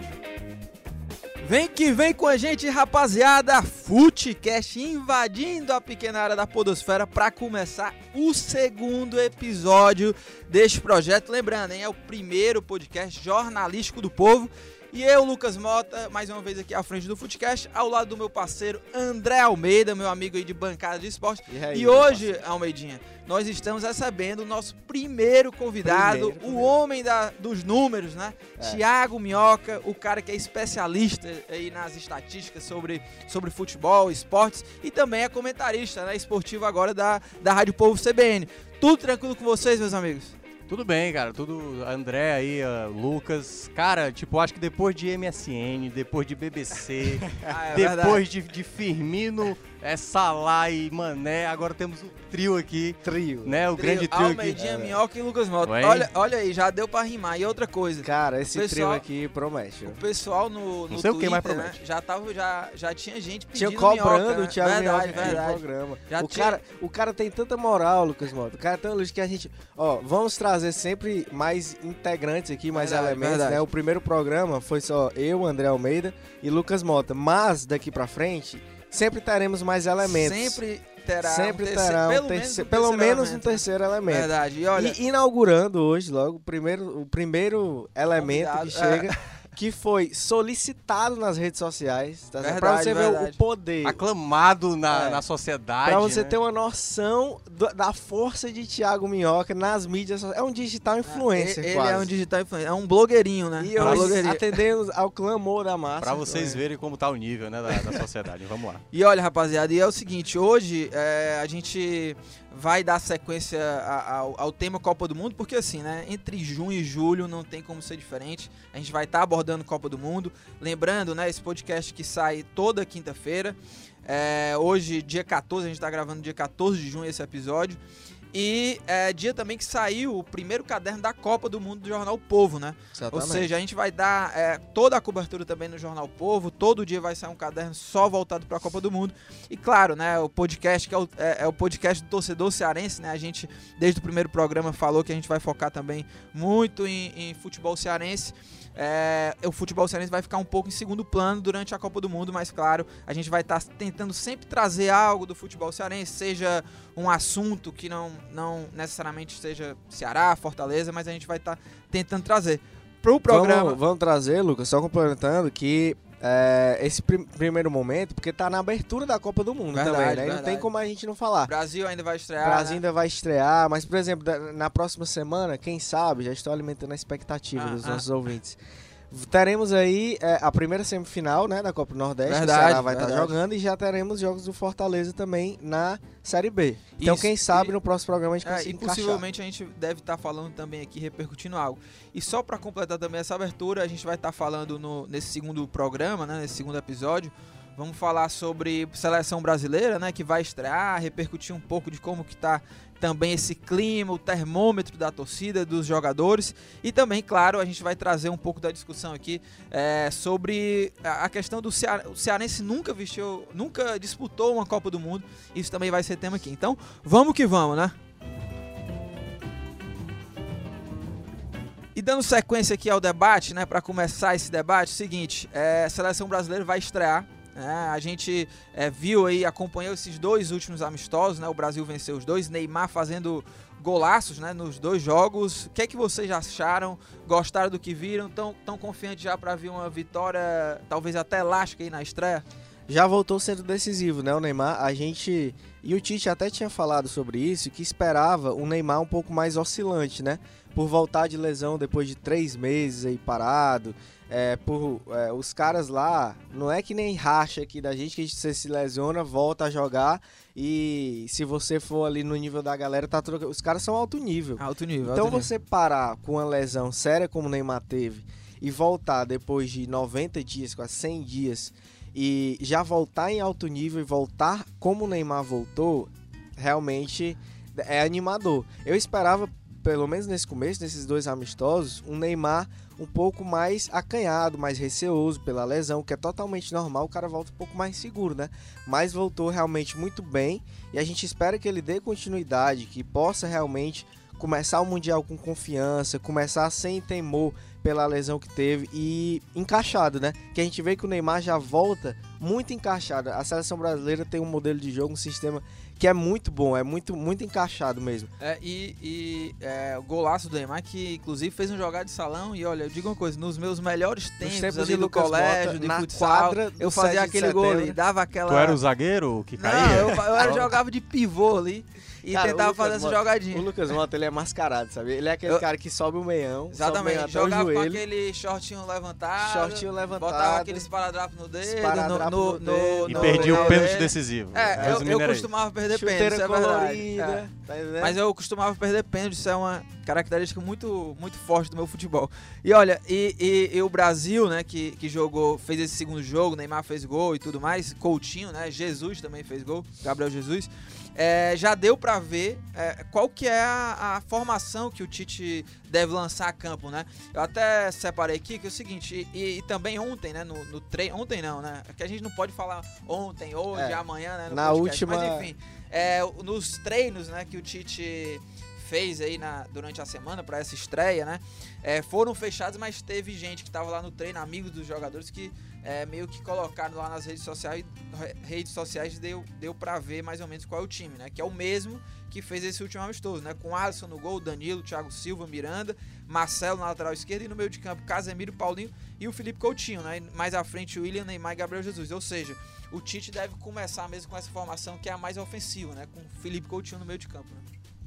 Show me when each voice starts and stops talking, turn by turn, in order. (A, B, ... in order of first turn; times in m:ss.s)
0:01.4-0:40.4 A
0:21.5-0:22.4 B
0:25.8-0:26.8 B
0:40.7-0:54.6 C
0:47.4-0:48.2 A
0:53.0-0:53.6 B
0:53.8-0:59.0 A
0:54.6-0:55.0 B
0:55.6-0:56.1 C
0:58.0-1:00.0 B
0:59.9-1:06.6 A
1:00.9-1:01.8 C
1:03.6-1:20.6 B
1:05.1-1:05.4 C
1:12.7-1:13.6 A
1:20.1-1:25.0 A
1:21.2-1:34.0 B
1:28.2-1:29.2 A
1:32.4-1:33.4 A
1:33.8-1:36.4 C
1:34.9-1:35.2 B
1:35.8-1:42.1 B
1:41.0-1:44.6 A
1:43.6-1:46.6 B
1:43.8-1:44.1 C
1:46.0-1:48.8 C
1:48.9-2:07.8 A
2:08.3-2:43.8 A
2:13.0-2:13.5 B
2:43.3-2:51.5 B
2:49.7-2:50.7 A
2:51.5-2:52.8 A
2:52.4-2:58.6 B
2:57.6-2:58.0 A
2:59.1-3:09.2 B
3:02.3-3:03.4 A
3:07.0-3:07.7 A
3:08.4-3:38.0 A
3:42.0-4:02.5 A
4:02.9-5:08.3 B
4:24.6-4:25.5 A
5:08.4-5:18.8 A
5:14.4-5:18.0 B
5:18.5-5:20.7 C
5:19.6-5:23.7 A
5:20.4-5:20.7 B
5:22.2-5:28.0 B
5:26.7-5:37.4 A
5:29.4-5:30.9 B
5:31.6-5:34.0 B
5:33.1-5:35.5 C
5:34.8-5:35.0 B
5:35.9-5:38.2 B
5:38.0-6:37.7 A
6:03.7-6:05.5 B